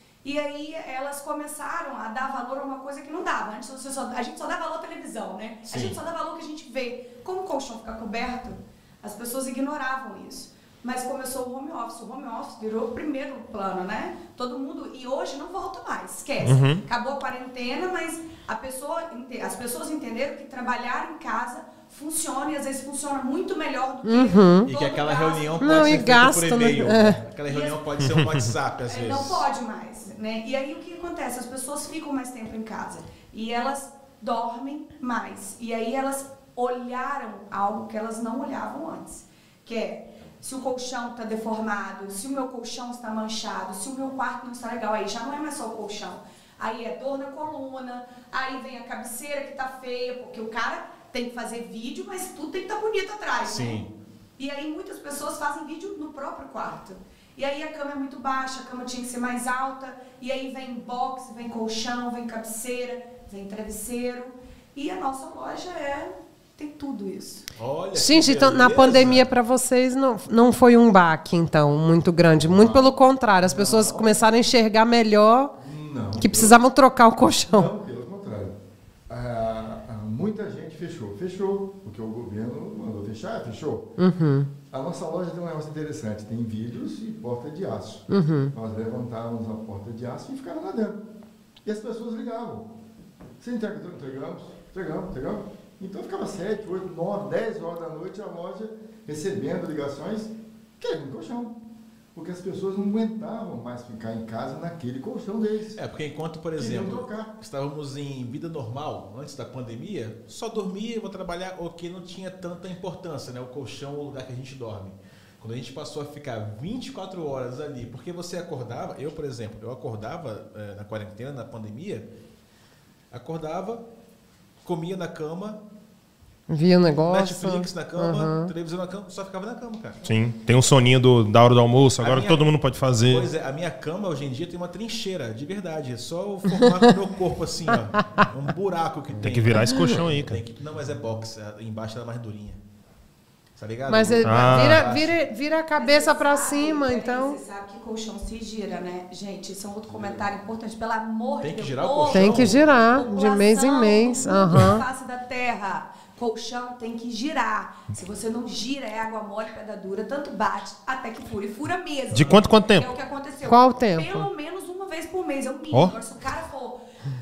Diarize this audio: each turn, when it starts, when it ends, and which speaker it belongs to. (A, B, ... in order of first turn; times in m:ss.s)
0:00.2-0:25.9 A
0:05.7-0:06.0 B
0:16.4-0:16.8 C
0:24.0-0:24.7 D
0:24.6-0:29.4 B
0:25.6-0:27.2 D
0:27.5-0:27.8 A
0:28.0-0:28.4 C
0:28.9-0:53.8 A
0:53.4-0:53.9 B
0:54.4-1:07.4 A
1:07.6-1:09.3 B
1:07.9-1:15.5 D
1:12.3-1:14.1 E
1:15.6-1:16.6 E
1:16.2-1:17.7 D
1:17.5-1:18.6 E
1:19.1-1:23.9 E
1:24.0-1:24.5 D
1:24.7-1:31.0 E
1:28.1-1:28.5 D
1:31.6-1:32.7 E
1:33.4-1:41.6 E
1:42.1-1:45.8 E
1:45.7-2:02.0 B
1:46.6-1:47.3 E
2:03.1-2:03.8 B
2:04.6-2:05.6 B
2:06.5-2:08.5 D
2:07.0-2:10.0 B
2:10.0-2:13.3 C
2:12.0-2:12.5 B
2:13.0-2:22.6 B
2:19.2-2:20.4 C
2:23.6-2:25.2 B
2:23.9-2:27.4 D
2:24.2-2:24.9 C
2:25.8-2:46.8 A
2:29.8-2:30.3 E
2:31.4-2:33.0 B
2:32.1-2:34.8 D
2:42.1-2:42.9 C
2:43.4-2:44.3 D